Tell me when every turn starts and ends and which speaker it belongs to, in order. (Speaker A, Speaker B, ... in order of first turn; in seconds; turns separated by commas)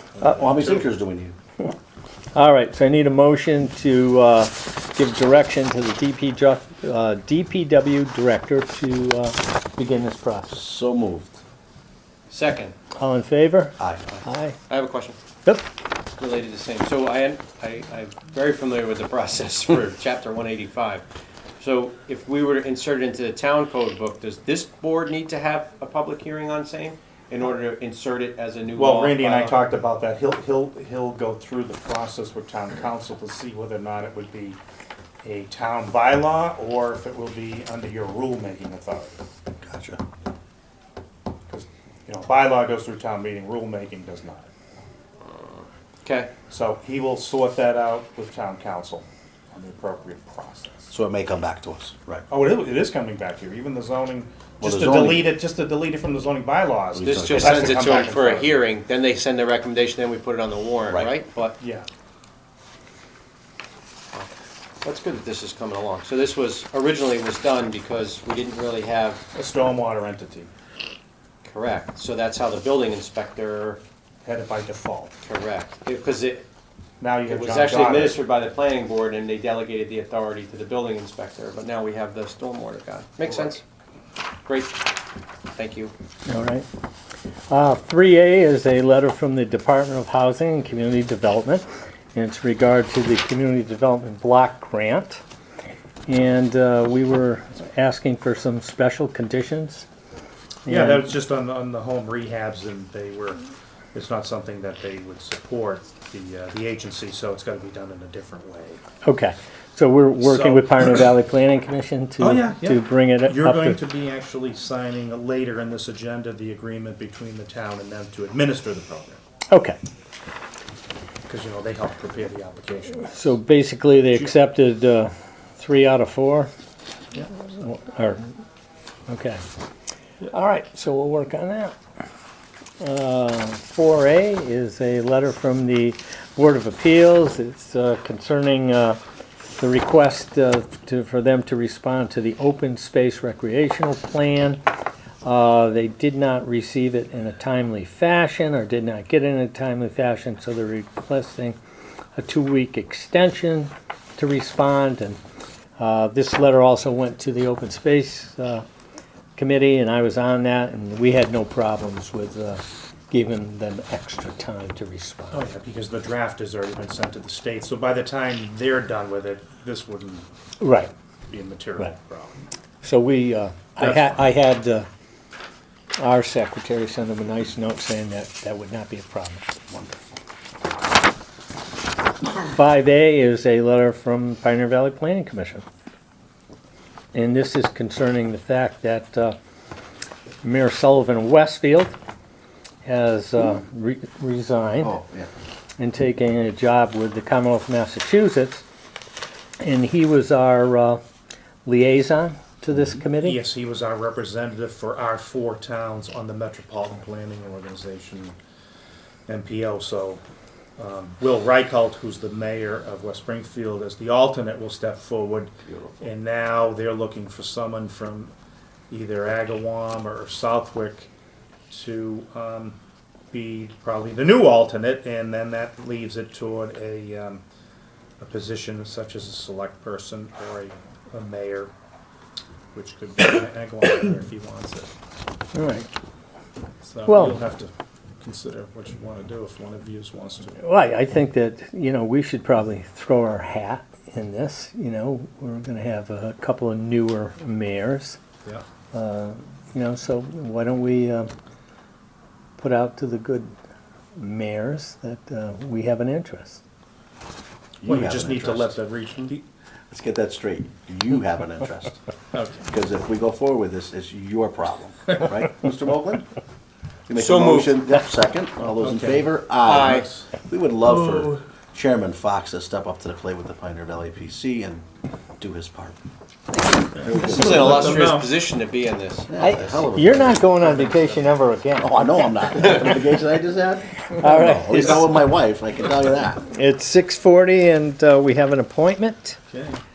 Speaker A: 0.2-0.8, Speaker B: 0.2-1.3, Speaker C: 2.3-10.5, Speaker B: 10.5-11.4, Speaker D: 12.3-12.7, Speaker C: 13.0-14.6, Speaker B: 13.8-14.1, Speaker D: 14.1-15.2, Speaker D: 16.2-21.0, Speaker D: 21.6-29.6, Speaker A: 28.7-34.6, Speaker A: 35.2-39.2, Speaker B: 39.6-40.0, Speaker A: 41.5-44.5, Speaker D: 46.0-46.3, Speaker A: 46.5-50.9, Speaker B: 50.9-52.3, Speaker A: 52.3-58.6, Speaker B: 54.6-55.3, Speaker B: 56.9-57.9, Speaker D: 57.0-61.6, Speaker A: 61.6-61.9, Speaker D: 64.8-69.2, Speaker A: 69.3-70.5, Speaker D: 71.4-73.8, Speaker A: 74.2-75.2, Speaker D: 75.2-76.5, Speaker A: 77.0-78.2, Speaker D: 77.2-83.6, Speaker A: 83.2-83.6, Speaker D: 84.5-84.8, Speaker D: 85.5-85.9, Speaker C: 86.3-86.7, Speaker C: 87.5-95.2, Speaker C: 96.1-99.8, Speaker C: 100.7-101.1, Speaker A: 100.7-103.4, Speaker A: 103.9-108.8, Speaker C: 109.0-113.8, Speaker A: 110.2-110.9, Speaker A: 112.2-119.2, Speaker C: 119.5-119.8, Speaker A: 121.3-123.2, Speaker C: 123.1-126.5, Speaker C: 127.3-128.3, Speaker C: 129.1-129.4, Speaker C: 130.2-131.8, Speaker C: 132.8-139.0, Speaker C: 139.6-144.6, Speaker C: 145.2-151.6, Speaker C: 152.2-155.2, Speaker C: 155.8-158.6, Speaker C: 159.3-165.4, Speaker A: 165.3-170.2, Speaker C: 170.6-170.9, Speaker A: 171.3-172.4, Speaker C: 172.8-174.9, Speaker A: 173.8-174.3, Speaker C: 176.0-179.4, Speaker B: 179.7-180.0, Speaker C: 182.4-185.6, Speaker C: 187.1-189.4, Speaker C: 190.4-191.9, Speaker C: 192.8-194.9, Speaker B: 194.8-195.3, Speaker C: 195.8-198.6, Speaker C: 199.6-201.0, Speaker C: 201.6-203.4, Speaker A: 203.2-208.3, Speaker A: 209.3-210.2, Speaker A: 210.8-218.3, Speaker B: 215.6-216.0, Speaker A: 218.9-221.1, Speaker A: 221.7-222.8, Speaker A: 223.3-227.4, Speaker A: 228.2-231.7, Speaker A: 232.7-234.9, Speaker C: 235.5-235.9, Speaker A: 236.8-240.6, Speaker C: 237.1-237.4, Speaker C: 240.6-248.2, Speaker C: 248.9-251.3, Speaker C: 252.6-253.5, Speaker C: 254.2-256.6, Speaker B: 257.8-258.8, Speaker A: 257.8-259.4, Speaker B: 259.9-262.0, Speaker A: 262.3-262.7, Speaker B: 262.7-266.3, Speaker B: 267.1-274.9, Speaker D: 267.1-268.0, Speaker A: 268.8-270.3, Speaker D: 269.6-270.1, Speaker B: 275.4-276.0, Speaker B: 276.9-278.1, Speaker D: 277.1-279.8, Speaker A: 277.1-278.3, Speaker B: 279.3-280.8, Speaker C: 279.4-282.8, Speaker B: 281.8-286.4, Speaker C: 284.1-285.2, Speaker C: 286.4-289.4, Speaker A: 289.5-289.8